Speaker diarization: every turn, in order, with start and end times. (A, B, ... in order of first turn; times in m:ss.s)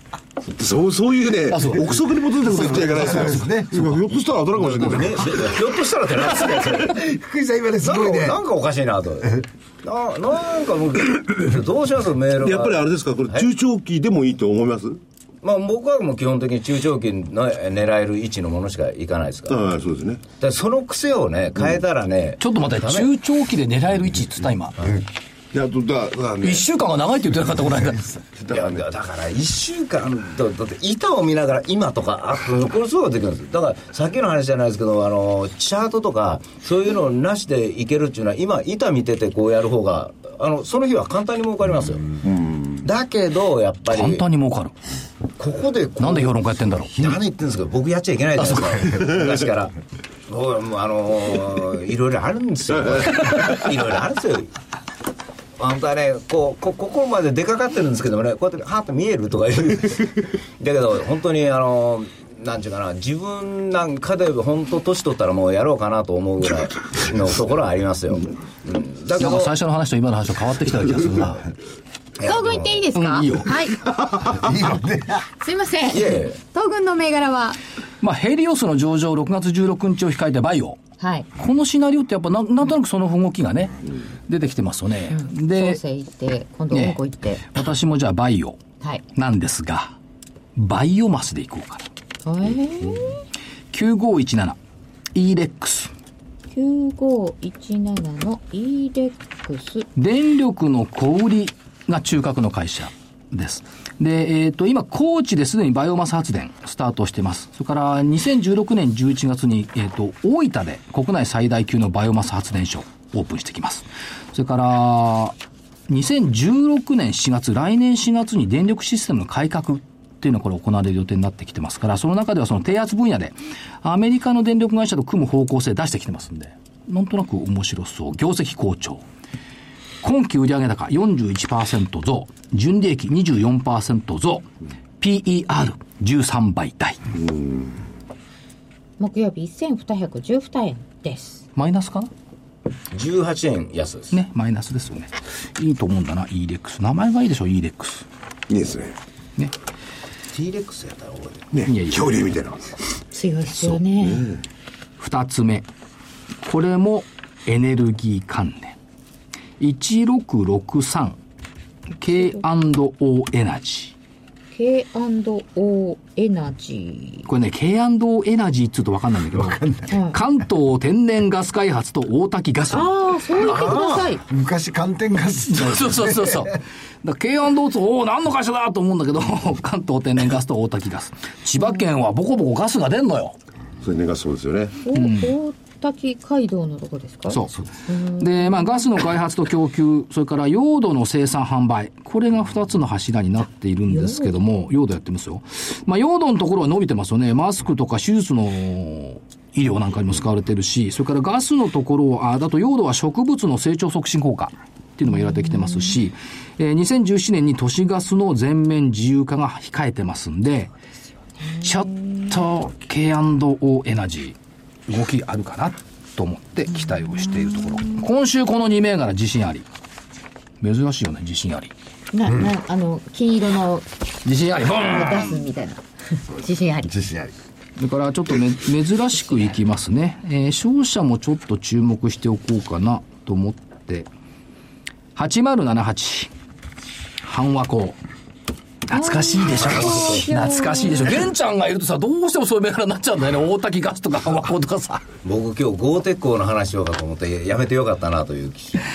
0:00.5-0:05.4 A
0:01.5-0:01.9 B
0:02.4-0:04.1 C
0:04.6-0:07.0 D
0:06.8-0:08.4 C
0:07.8-0:13.5 D
0:12.4-0:15.0 A
0:15.4-0:19.6 D
0:19.5-0:20.2 A
0:20.4-0:23.1 D
0:22.4-0:24.7 B
0:25.5-0:26.6 A
0:26.4-0:28.1 B
0:28.4-0:28.8 A
0:28.5-0:42.2 D
0:42.2-0:42.8 A
0:42.8-0:44.2 D
0:43.9-0:44.7 B
0:45.4-0:46.4 D
0:46.0-0:46.9 B
0:46.9-0:49.7 D
0:50.3-0:54.5 D
0:55.6-1:09.5 D
1:09.2-1:11.4 B
1:12.2-1:12.8 D
1:12.2-1:13.8 E
1:12.9-1:13.6 B
1:14.1-1:15.2 C
1:15.4-1:17.6 E
1:15.9-1:16.4 D
1:18.0-1:20.8 B
1:21.0-1:21.3 E
1:21.4-1:25.8 B
1:25.1-1:27.4 E
1:26.7-1:28.6 B
1:29.1-1:30.0 B
1:30.6-1:31.9 B
1:32.2-1:33.2 E
1:33.7-1:34.6 B
1:35.1-1:35.9 B
1:36.5-1:39.8 E
1:40.0-1:55.4 B
1:55.9-2:09.0 B
2:10.0-2:14.5 B
2:15.0-2:17.0 B
2:17.1-2:17.8 A
2:19.0-2:21.4 E
2:21.6-2:22.1 B
2:22.9-2:24.1 D
2:24.1-2:28.0 B
2:28.5-2:29.0 A
2:30.3-2:31.5 D
2:31.5-2:32.7 A
2:31.6-2:32.1 B
2:33.1-2:34.3 E
2:33.7-2:34.4 A
2:35.0-2:35.7 B
2:36.4-2:38.8 B
2:39.6-2:41.2 B
2:42.0-2:43.9 B
2:44.5-2:47.2 E
2:47.2-2:52.9 B
2:49.3-2:50.0 C
2:49.9-2:50.2 E
2:52.7-2:54.2 E
2:53.3-2:56.5 C
2:55.5-3:03.4 B
3:03.8-3:04.8 A
3:04.8-3:08.6 E
3:04.9-3:05.3 B
3:07.3-3:07.5 B
3:08.2-3:30.7 B
3:13.9-3:14.3 E
3:25.4-3:25.9 E
3:31.6-3:34.4 B
3:34.9-3:39.6 B
3:37.2-3:37.5 E
3:40.6-3:41.7 B
3:42.1-3:43.8 E
3:42.2-3:42.5 C
3:44.2-3:45.4 B
3:44.9-3:45.8 E
3:46.3-3:47.3 C
3:46.4-3:46.9 E
3:47.8-3:54.1 B
3:55.2-3:56.3 B
3:57.2-3:58.0 B
3:58.9-4:05.0 B
3:58.9-4:01.1 E
4:05.2-4:08.8 D